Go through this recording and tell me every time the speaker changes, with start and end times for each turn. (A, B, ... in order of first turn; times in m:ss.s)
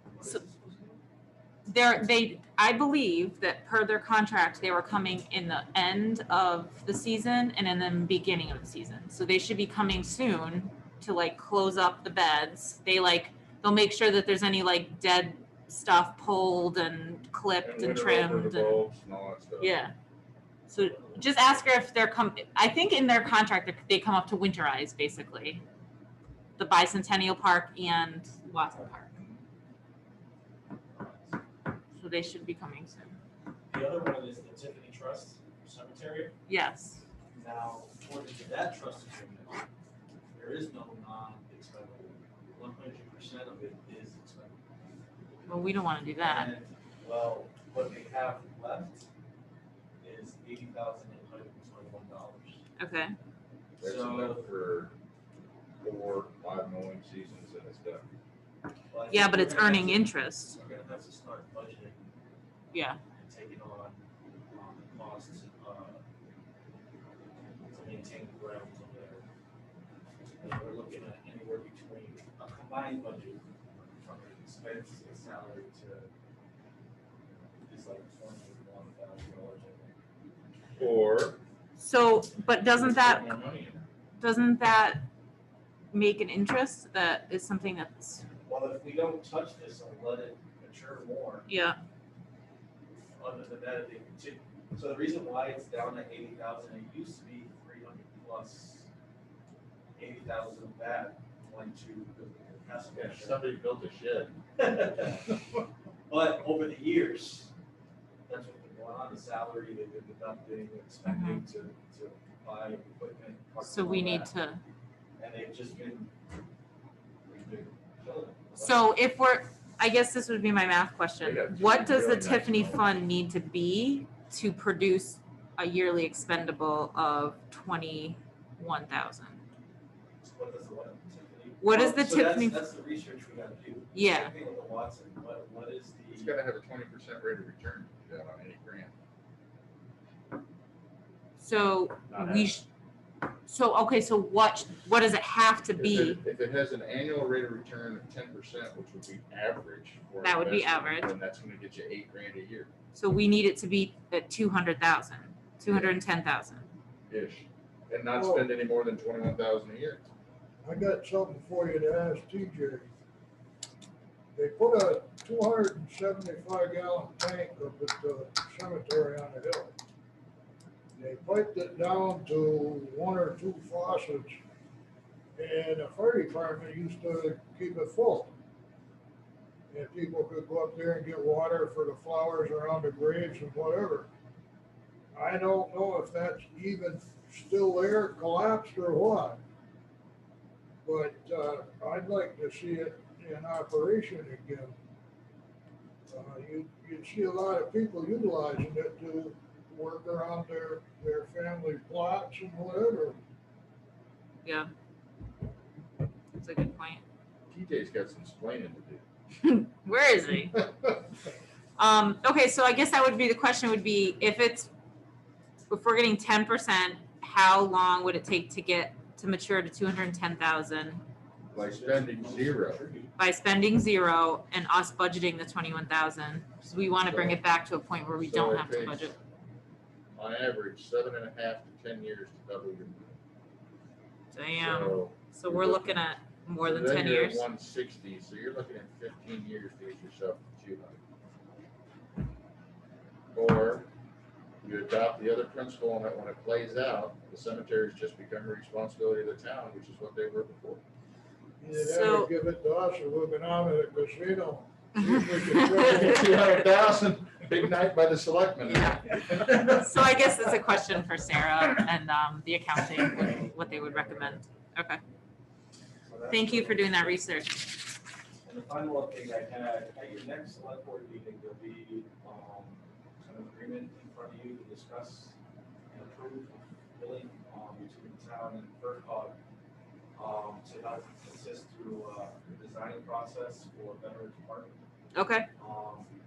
0:00.2-0:01.0 A
0:01.7-0:18.8 B
0:17.6-0:19.8 C
0:19.6-0:19.9 B
0:20.7-0:21.5 A
0:20.7-0:25.6 B
0:26.6-0:29.1 B
0:30.9-0:31.4 A
0:32.0-0:33.2 B
0:33.7-0:36.3 A
0:36.5-0:37.0 B
0:37.3-0:39.6 A
0:40.3-0:44.6 A
0:45.5-0:46.5 B
0:46.2-0:49.1 A
0:50.0-0:52.6 A
0:52.8-0:53.2 B
0:53.8-0:54.5 A
0:53.8-0:54.9 C
0:55.8-0:58.0 C
0:58.9-1:02.0 A
0:59.1-1:00.6 B
1:02.7-1:03.0 B
1:03.1-1:04.0 A
1:04.5-1:06.0 A
1:07.7-1:09.2 A
1:10.4-1:16.1 A
1:17.6-1:19.9 A
1:20.8-1:21.4 C
1:21.8-1:23.3 B
1:22.6-1:23.8 C
1:24.2-1:25.0 B
1:25.9-1:28.2 B
1:28.5-1:31.5 A
1:31.5-1:31.8 B
1:33.2-1:38.9 A
1:40.0-1:43.5 A
1:42.9-1:44.4 C
1:44.6-1:45.3 A
1:46.1-1:47.5 A
1:48.3-1:54.3 A
1:51.0-1:51.4 B
1:53.6-1:54.6 B
1:55.2-1:56.1 A
1:57.3-1:58.9 A
1:58.6-2:09.4 B
2:01.2-2:02.8 C
2:10.2-2:16.3 A
2:11.6-2:12.6 B
2:13.9-2:14.3 B
2:16.1-2:18.9 C
2:21.4-2:22.7 B
2:22.1-2:22.5 C
2:23.4-2:26.2 B
2:25.8-2:32.7 C
2:30.2-2:31.1 B
2:32.9-2:36.7 B
2:35.7-2:36.0 C
2:37.1-2:40.1 C
2:38.1-2:38.5 D
2:40.6-2:42.9 D
2:44.4-2:49.7 D
2:51.0-2:54.4 D
2:55.4-2:58.3 D
2:59.7-3:04.1 D
3:05.1-3:09.4 D
3:10.8-3:14.7 D
3:16.1-3:23.2 D
3:24.4-3:24.7 B
3:26.4-3:27.0 B
3:27.5-3:29.0 C
3:29.4-3:30.6 B
3:30.5-3:30.9 C
3:31.8-3:34.7 B
3:35.7-3:41.0 B
3:41.5-3:43.1 A
3:41.5-3:42.8 C
3:43.2-3:49.2 B
3:47.0-3:47.4 C
3:48.2-3:49.1 C
3:50.1-3:53.2 C
3:54.3-3:57.4 B
3:54.6-3:56.0 C
3:56.6-4:01.0 C
4:03.3-4:03.9 C
4:04.6-4:10.8 C
4:11.6-4:16.3 D
4:11.7-4:12.3 B
4:15.0-4:16.6 B
4:15.6-4:19.9 C
4:18.7-4:25.0 B
4:23.2-4:24.4 A
4:26.0-4:27.2 A
4:26.3-4:27.8 B
4:28.4-4:35.3 A
4:35.9-4:39.4 A
4:40.2-4:44.8 A
4:45.1-4:45.5 B
4:45.6-4:46.1 A